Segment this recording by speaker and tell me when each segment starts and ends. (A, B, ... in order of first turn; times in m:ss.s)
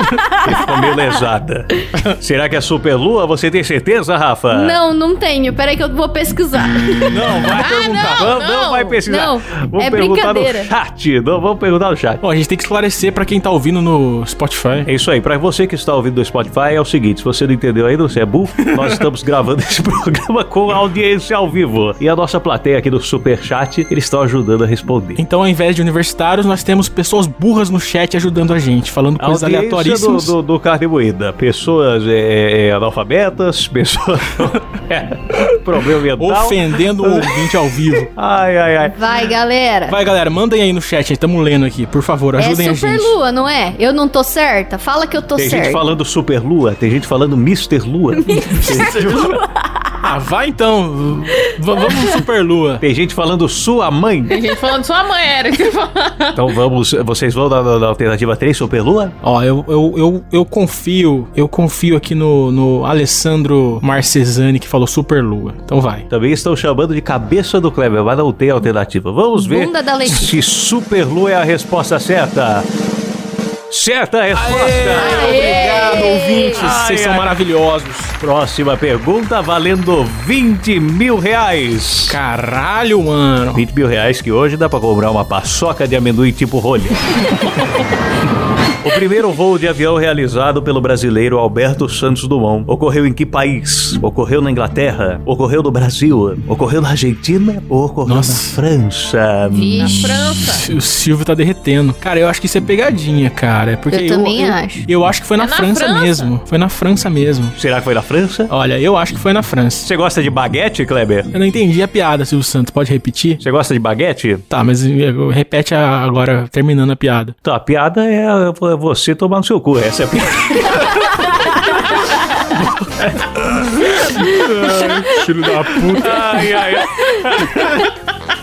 0:00.3-0:04.8 A
0:04.5-0:07.4 B
0:07.1-0:08.3 C
0:07.6-0:09.0 D
0:08.1-0:12.2 A
0:09.0-0:10.7 B
0:12.2-0:14.9 C
0:14.8-0:25.2 A
0:25.2-0:30.3 C
0:29.2-0:39.0 A
0:36.2-0:38.1 C
0:38.9-0:40.0 B
0:39.9-0:43.1 C
0:42.4-0:45.8 B
0:45.4-0:49.4 A
0:48.2-0:49.4 B
0:48.6-0:49.4 C
0:50.0-0:52.8 C
0:52.8-0:54.4 A
0:54.3-0:56.5 D
0:56.3-0:59.1 A
0:59.2-1:06.1 C
1:06.1-1:12.7 A
1:09.4-1:10.3 B
1:13.7-1:17.3 A
1:14.3-1:18.2 C
1:14.9-1:16.6 B
1:15.1-1:15.8 D
1:18.2-1:22.2 A
1:22.1-1:23.6 C
1:23.5-1:27.2 A
1:28.8-1:40.3 A
1:38.0-1:38.6 C
1:39.4-1:40.1 B
1:39.8-1:40.7 D
1:40.2-1:47.6 C
1:43.9-1:44.8 B
1:45.4-1:46.3 D
1:47.6-1:48.5 A
1:48.5-1:49.9 C
1:49.8-1:51.3 A
1:51.3-1:53.4 C
1:53.4-1:54.4 A
1:54.5-1:57.3 C
1:57.4-2:01.0 A
2:02.5-2:05.2 A
2:03.9-2:06.3 C
2:05.8-2:07.9 A